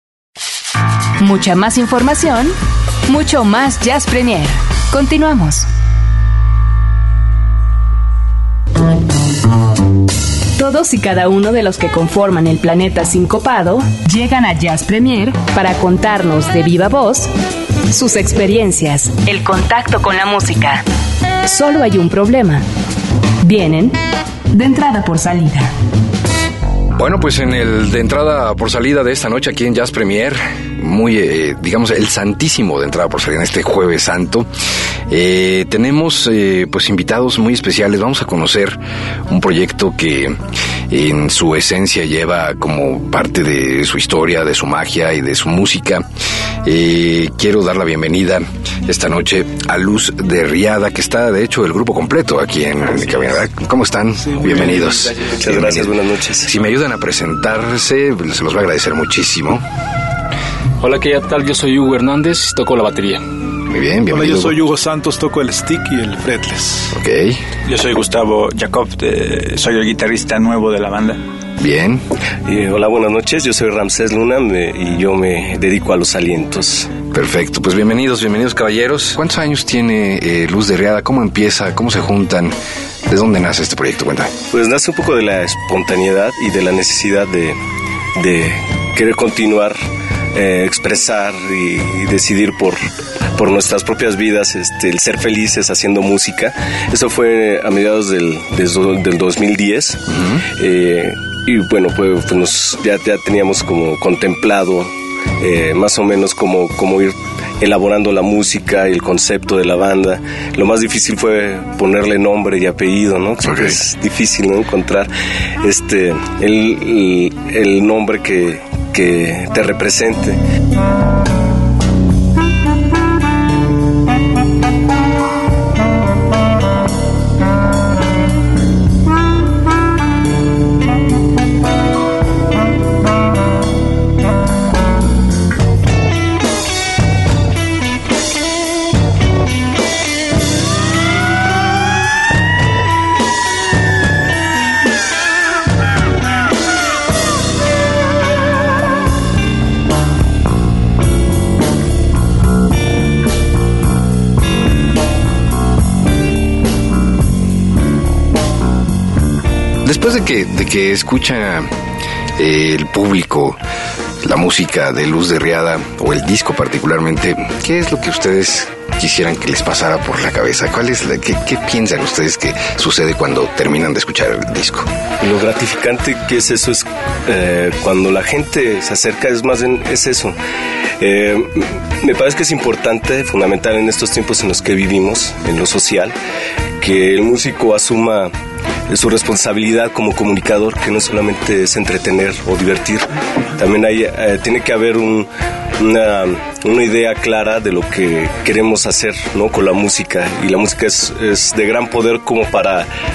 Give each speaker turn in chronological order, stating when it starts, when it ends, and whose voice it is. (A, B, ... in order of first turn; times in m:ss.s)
0:01.2-0:05.7 A
0:10.6-0:17.3 A
0:17.9-0:20.8 A
0:21.4-0:22.6 A
0:23.4-0:24.0 A
0:24.5-0:25.7 A
0:26.9-0:34.5 B
0:35.1-0:46.0 B
0:46.6-0:59.6 B
0:54.4-0:54.9 C
0:55.2-0:56.5 D
1:00.8-1:03.2 E
1:03.6-1:04.6 B
1:04.1-1:06.9 C
1:06.9-1:07.4 B
1:07.6-1:11.2 F
1:11.6-1:12.0 B
1:12.4-1:16.9 D
1:17.1-1:22.5 B
1:23.1-1:24.3 B
1:24.5-1:27.6 D
1:28.1-1:29.8 D
1:30.3-1:32.8 D
1:33.3-1:55.1 D
1:40.1-1:40.4 B
1:53.4-1:53.8 B
1:55.6-2:00.4 D
2:39.8-2:41.7 B
2:42.4-2:43.6 B
2:44.2-2:54.9 B
2:55.2-3:00.4 D
3:01.0-3:06.1 D
3:06.8-3:08.3 D
3:08.9-3:22.9 D